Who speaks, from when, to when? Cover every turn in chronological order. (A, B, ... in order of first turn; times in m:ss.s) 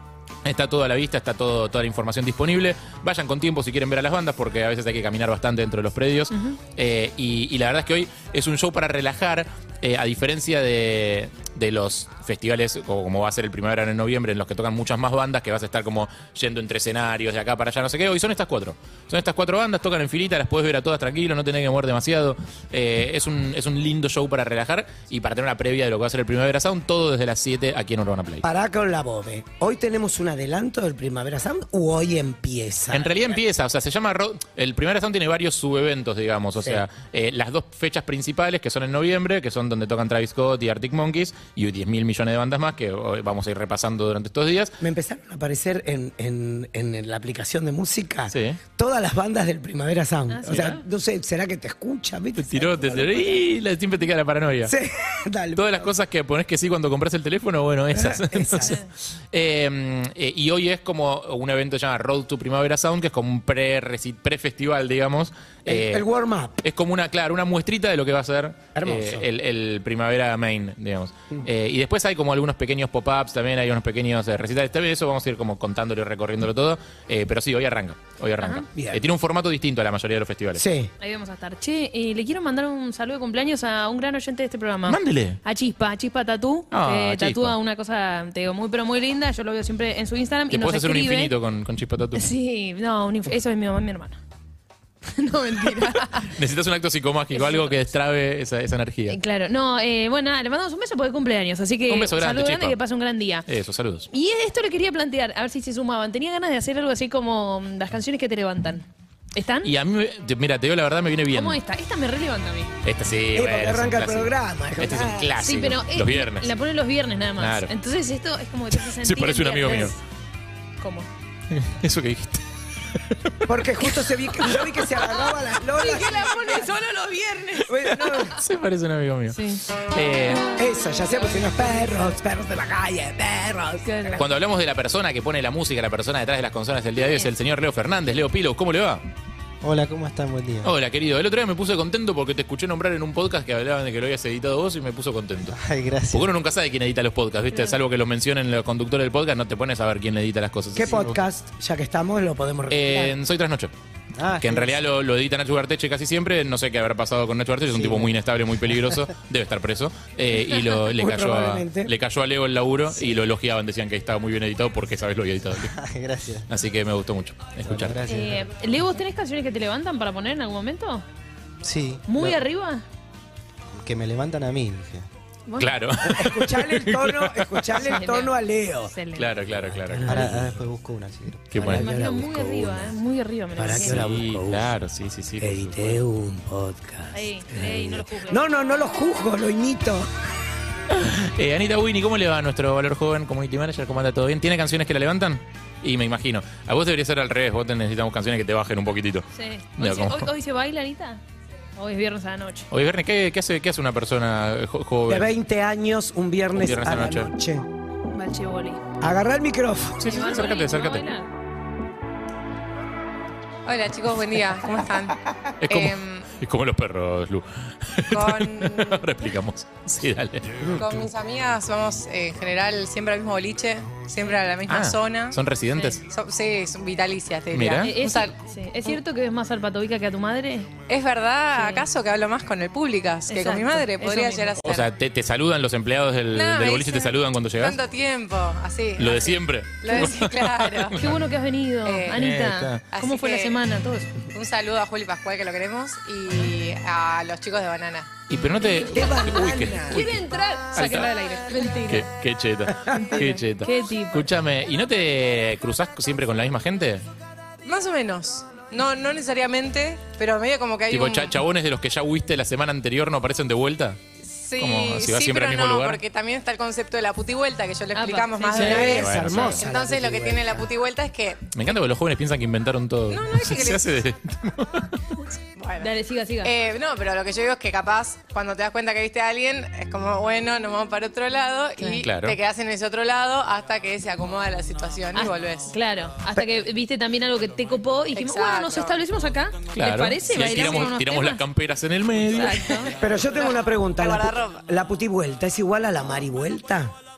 0:00.4-0:28.4 A
0:28.4-0:33.1 B
0:32.9-0:44.8 A
0:44.8-0:53.4 B
0:48.3-0:48.6 A
0:50.3-0:50.8 C
0:50.5-0:50.8 A
0:52.4-0:54.7 A
0:54.7-0:55.9 B
0:55.6-1:06.0 A
0:57.9-0:58.8 B
0:58.6-0:58.9 C
1:05.7-1:06.6 B
1:06.6-1:20.6 A
1:08.8-1:09.2 B
1:18.8-1:19.0 B
1:20.6-1:20.9 B
1:21.0-1:31.3 C
1:24.9-1:25.4 A
1:26.7-1:27.6 A
1:30.5-1:32.3 A
1:32.2-1:34.2 C
1:35.1-1:36.3 C
1:36.2-1:39.2 A
1:37.3-1:37.8 C
1:39.1-1:43.5 C
1:41.9-1:42.8 A
1:43.5-1:44.1 A
1:44.1-1:49.7 C
1:49.6-1:51.6 A
1:51.3-1:52.7 C
1:52.8-1:56.5 A
1:53.4-1:55.3 B
1:55.4-2:00.0 C
1:57.4-1:57.7 A
1:58.9-2:00.0 A
2:00.8-2:01.1 C
2:01.5-2:02.4 A
2:03.2-2:03.9 A
2:03.5-2:06.7 B
2:05.7-2:07.7 C
2:07.7-2:08.4 B
2:08.3-2:10.5 A
2:09.3-2:09.6 C
2:10.6-2:14.2 B
2:10.8-2:12.2 C
2:13.8-2:14.2 C
2:14.2-2:19.0 A
2:19.6-2:20.7 D
2:20.6-2:25.6 A
2:25.5-2:26.3 D
2:26.1-2:31.2 A
2:27.5-2:27.8 C
2:30.8-2:33.1 B
2:32.7-2:33.7 A
2:34.2-2:34.8 D
2:34.4-2:45.7 A
2:37.8-2:38.1 D
2:38.7-2:39.0 D
2:40.9-2:41.9 B
2:45.7-2:46.5 D
2:46.5-2:48.0 A
2:47.6-2:48.5 D
2:48.1-2:51.0 C
2:51.6-2:52.4 D
2:52.1-2:52.8 C
2:53.7-2:55.1 D
2:55.5-2:55.7 C
2:55.6-2:57.8 A
2:56.0-2:58.9 B
2:57.8-2:58.3 C
2:58.9-2:59.3 C
2:59.2-3:00.4 A
2:59.6-3:01.7 D
3:00.1-3:00.3 B
3:01.5-3:01.9 A
3:01.5-3:03.0 B
3:01.6-3:04.0 C
3:03.6-3:04.7 B
3:03.7-3:06.0 A
3:05.4-3:10.1 B
3:07.1-3:08.4 C
3:10.9-3:19.3 A
3:19.4-3:21.2 C
3:19.8-3:20.3 A
3:21.8-3:22.7 C
3:22.7-3:25.3 A
3:25.1-3:27.7 B
3:26.6-3:27.3 A
3:28.1-3:28.8 C
3:29.0-3:30.0 B
3:30.0-3:31.0 A
3:30.0-3:31.3 C
3:33.7-3:36.3 E
3:35.6-3:40.8 A
3:38.1-3:39.0 E
3:40.8-3:45.4 E
3:44.7-3:46.0 A
3:46.0-3:48.3 E
3:47.5-3:48.0 A
3:47.8-3:50.7 C
3:50.9-3:54.9 E
3:51.5-3:51.9 C
3:53.3-3:54.6 C
3:54.6-3:57.8 A
3:56.3-4:01.1 E
3:59.0-4:01.2 A
3:59.9-4:00.2 C
4:01.0-4:04.1 C
4:01.8-4:02.2 E
4:02.1-4:02.8 A
4:02.9-4:03.6 E
4:04.3-4:08.1 E
4:08.3-4:11.1 A
4:08.7-4:10.1 B
4:09.8-4:12.1 C
4:11.9-4:17.0 A
4:12.9-4:14.3 C
4:12.9-4:13.2 B
4:17.6-4:21.4 E
4:20.9-4:24.0 A
4:24.2-4:31.5 E
4:24.6-4:26.0 A
4:27.9-4:29.0 C
4:28.6-4:30.7 B
4:28.6-4:29.6 A
4:31.5-4:34.9 A
4:33.1-4:33.9 E
4:35.6-4:35.9 E
4:35.8-4:36.5 C
4:36.4-4:45.7 E
4:42.0-4:42.4 A
4:45.2-4:51.4 C
4:48.1-4:49.0 E
4:49.8-4:52.7 A
4:52.3-4:52.9 C
4:52.8-4:54.6 E
4:53.0-4:57.0 B